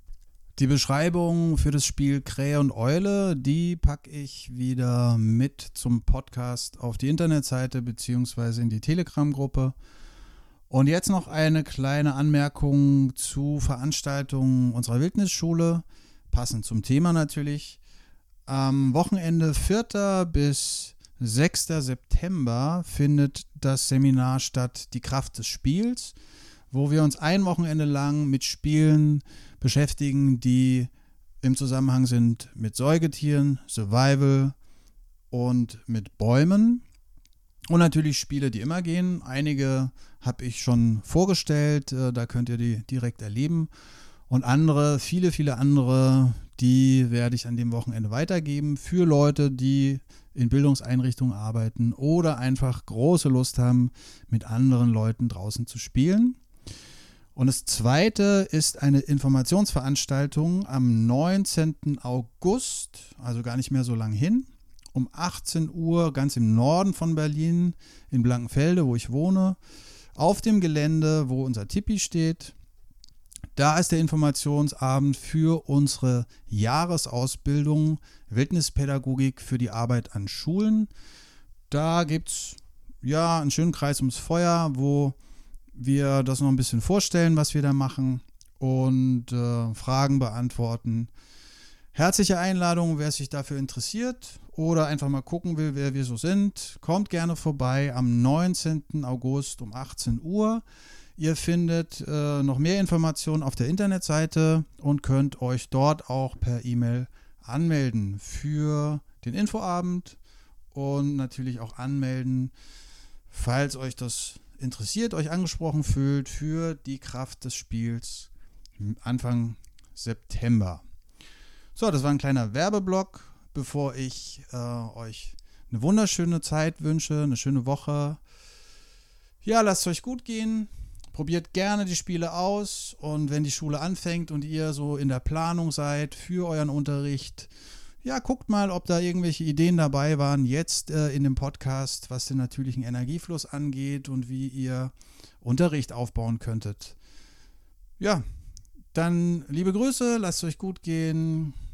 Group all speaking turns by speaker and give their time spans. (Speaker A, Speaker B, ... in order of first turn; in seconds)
Speaker A: 0.6-9.8, 10.7-17.8, 18.5-26.2, 26.7-30.9, 31.4-34.5, 35.3-36.8, 37.7-43.7, 44.3-56.4, 57.4-69.6, 70.2-72.5, 73.6-80.9, 81.7-85.2, 85.8-91.1, 91.9-100.6, 101.2-110.2, 110.7-112.5, 113.3-120.8, 121.8-128.2, 129.4-137.5, 138.0-147.0, 148.9-151.6